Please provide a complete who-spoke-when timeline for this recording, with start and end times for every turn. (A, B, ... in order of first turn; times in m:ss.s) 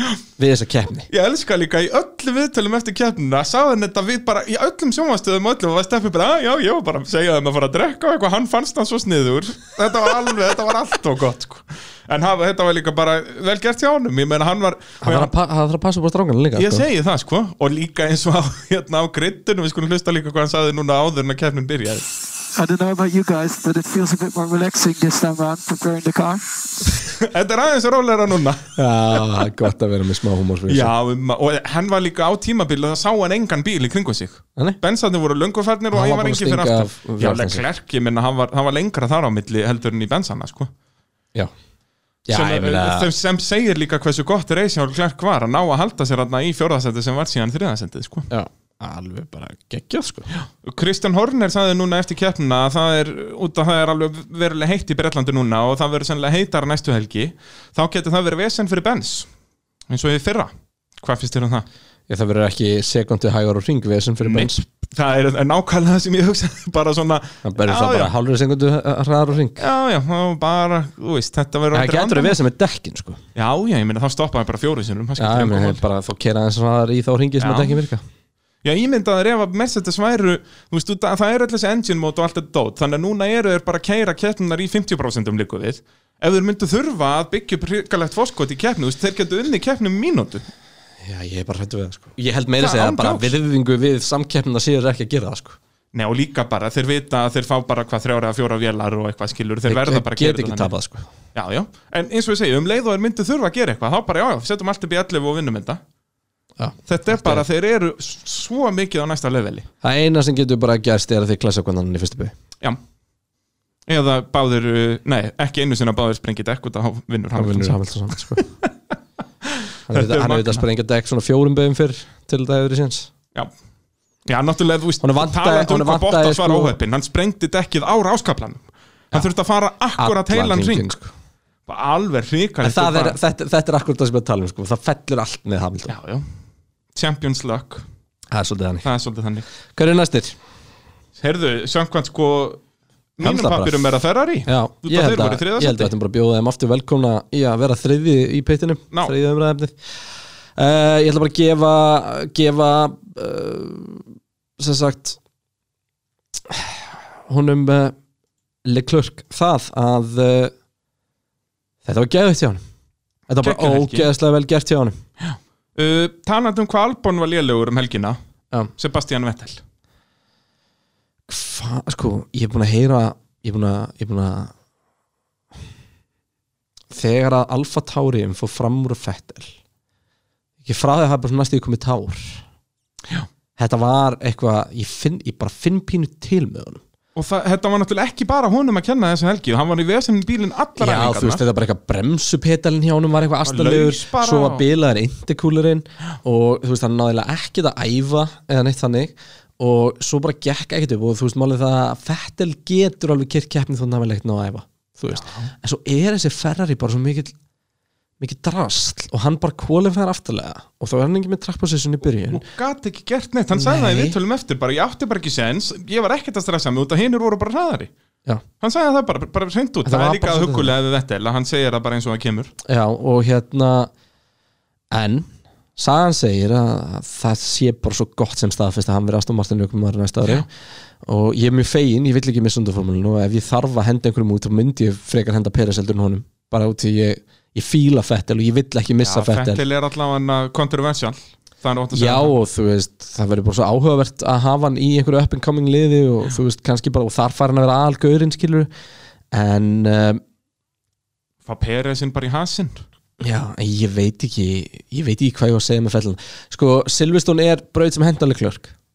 0:00.4-0:01.1 A
0:01.1-0:15.3 B
0:15.0-0:16.9 A
0:16.6-0:22.1 B
0:22.6-0:26.4 C
0:27.1-0:29.2 B
0:28.8-0:30.9 A
0:30.7-0:40.7 B
0:35.9-0:37.6 A
0:42.3-0:43.1 A
0:42.3-0:48.3 B
0:48.3-0:50.3 A
0:50.3-0:59.3 B
0:59.9-1:01.6 B
1:02.1-1:04.6 A
1:04.2-1:08.1 B
1:07.4-1:09.6 A
1:09.6-1:12.4 B
1:11.7-1:13.2 A
1:13.4-1:15.8 B
1:15.2-1:18.0 A
1:17.4-1:17.8 B
1:18.6-1:30.4 B
1:31.0-1:35.6 A
1:32.6-1:33.3 B
1:35.9-1:40.7 B
1:39.7-1:41.1 A
1:41.3-1:45.8 B
1:46.6-1:47.4 A
1:46.9-1:49.7 B
1:49.8-1:52.3 A
1:53.9-1:57.8 B
1:57.4-1:58.4 A
1:59.9-2:03.1 A
1:59.9-2:00.6 B
2:04.3-2:10.9 B
2:05.0-2:06.8 A
2:10.0-2:11.1 A
2:11.7-2:13.2 B
2:12.6-2:16.0 A
2:15.9-2:16.3 B
2:17.0-2:17.8 B
2:18.3-2:18.9 A
2:18.8-2:19.5 B
2:19.7-2:20.4 A
2:21.2-2:22.6 B
2:23.2-2:25.9 B
2:23.2-2:23.9 A
2:24.5-2:29.8 A
2:30.6-2:34.1 A
2:34.6-2:35.2 A
2:36.5-2:38.0 A
2:38.6-2:40.5 A
2:41.8-2:42.6 A
2:43.3-2:45.0 A
2:43.4-2:44.1 B
2:45.2-2:48.2 B
2:48.8-2:49.6 B
2:51.3-2:54.5 A
2:56.9-2:59.5 A
3:00.6-3:02.4 A
3:03.6-3:06.8 A
3:07.2-3:11.4 B
3:10.8-3:27.3 A
3:13.4-3:14.6 B
3:25.1-3:25.5 B
3:28.2-3:32.4 A
3:32.3-3:37.9 B
3:33.5-3:34.2 A
3:38.6-3:42.5 B
3:39.8-3:40.7 A
3:42.7-3:43.9 A
3:44.9-3:50.5 A
3:51.0-3:59.6 A
3:59.0-4:02.3 B
4:01.9-4:08.7 A
4:09.3-4:10.2 A
4:11.5-4:12.8 B
4:13.2-4:18.7 A